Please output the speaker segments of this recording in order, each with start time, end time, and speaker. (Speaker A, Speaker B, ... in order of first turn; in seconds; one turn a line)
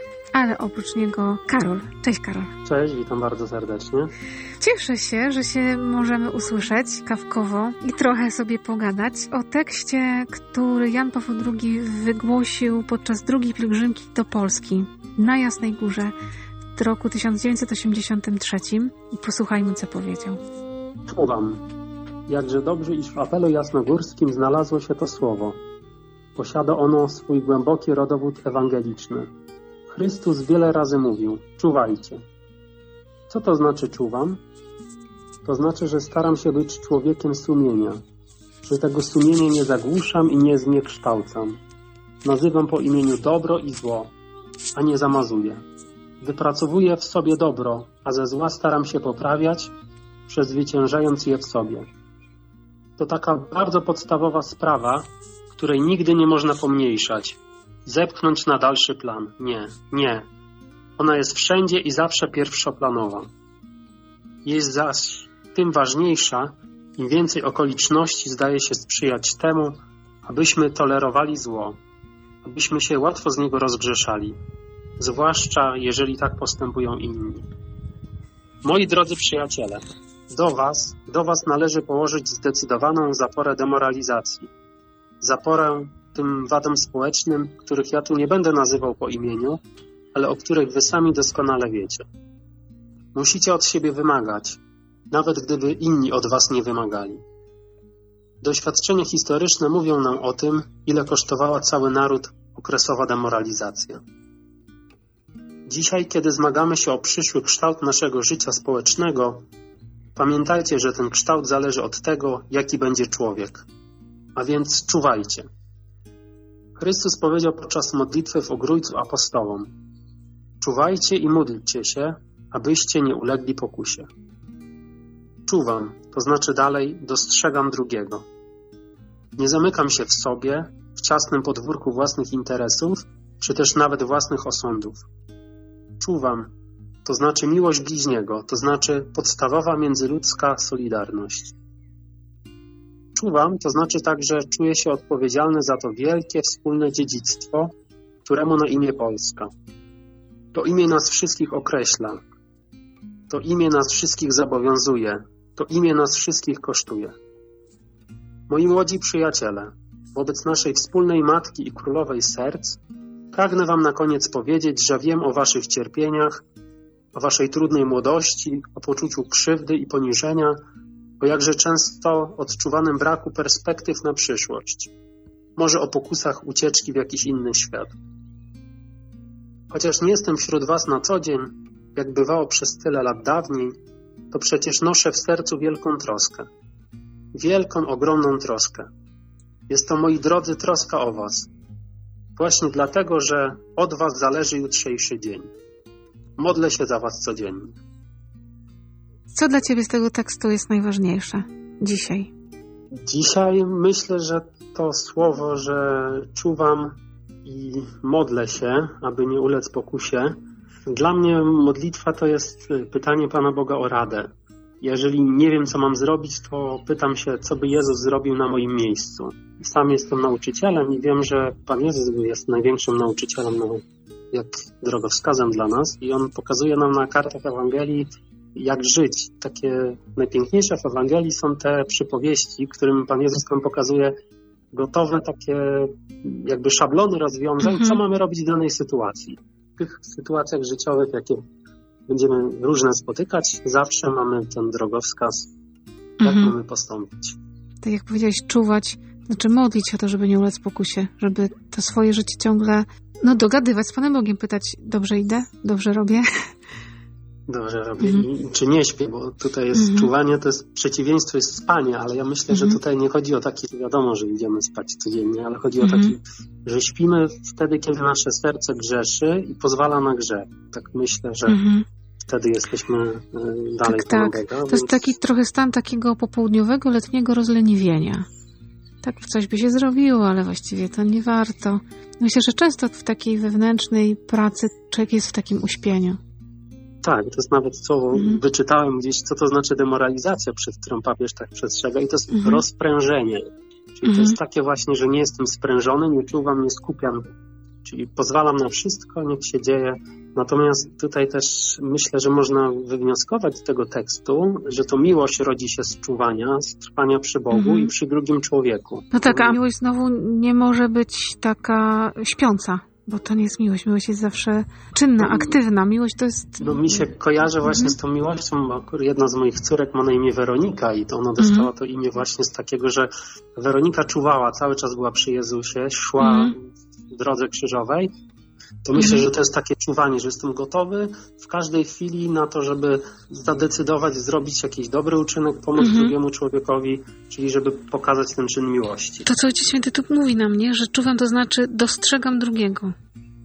Speaker A: 0.3-2.5
Speaker B: 2.6-4.1
Speaker A: 4.6-16.1
Speaker A: 16.8-20.4
Speaker B: 21.1-21.6
Speaker B: 22.3-25.6
Speaker B: 26.4-29.3
Speaker B: 29.9-32.2
Speaker B: 33.3-34.4
Speaker B: 35.5-38.0
Speaker B: 38.6-41.6
Speaker B: 42.2-44.1
Speaker B: 44.8-45.6
Speaker B: 46.2-49.7
Speaker B: 50.3-51.9
Speaker B: 53.0-60.3
Speaker B: 61.0-63.3
Speaker B: 64.5-71.8
Speaker B: 72.4-74.4
Speaker B: 75.0-77.5
Speaker B: 78.7-84.5
Speaker B: 85.2-89.6
Speaker B: 90.1-92.1
Speaker B: 93.2-97.2
Speaker B: 98.4-104.0
Speaker B: 105.7-109.5
Speaker B: 110.2-113.7
Speaker B: 114.4-115.5
Speaker B: 116.8-119.7
Speaker B: 120.6-124.1
Speaker B: 125.5-128.3
Speaker B: 129.4-135.1
Speaker B: 136.0-136.5
Speaker B: 137.1-141.5
Speaker B: 143.2-147.7
Speaker B: 148.2-149.5
Speaker B: 150.5-152.2
Speaker B: 153.3-157.1
Speaker B: 158.5-162.8
Speaker B: 163.3-166.4
Speaker B: 167.2-170.6
Speaker B: 171.2-174.9
Speaker B: 175.6-177.9
Speaker B: 179.7-183.8
Speaker B: 184.3-186.5
Speaker B: 187.3-188.9
Speaker B: 189.7-191.5
Speaker B: 192.4-195.5
Speaker B: 196.4-197.8
Speaker A: 199.3-202.3
Speaker B: 203.0-214.3
Speaker B: 214.8-234.1
Speaker B: 234.7-241.4
Speaker A: 237.6-238.0
Speaker B: 242.1-245.5
Speaker A: 246.2-246.5
Speaker B: 246.2-247.4
Speaker A: 247.8-256.3
Speaker B: 257.5-271.6
Speaker A: 258.0-258.2
Speaker A: 259.7-260.1
Speaker A: 262.5-262.8
Speaker A: 265.8-266.1
Speaker A: 271.5-271.9
Speaker B: 272.2-275.1
Speaker A: 273.9-278.3
Speaker A: 279.0-286.2
Speaker B: 287.0-293.4
Speaker A: 288.1-288.4
Speaker A: 292.3-292.6
Speaker B: 293.9-297.2
Speaker A: 294.1-294.4
Speaker B: 297.8-309.6
Speaker A: 307.5-307.9
Speaker A: 309.1-317.1
Speaker B: 315.2-315.6
Speaker B: 316.6-328.1
Speaker A: 317.6-318.0
Speaker A: 321.4-321.7
Speaker A: 326.2-326.6
Speaker B: 328.8-339.3
Speaker A: 329.0-329.3
Speaker A: 335.8-336.2
Speaker A: 339.2-342.9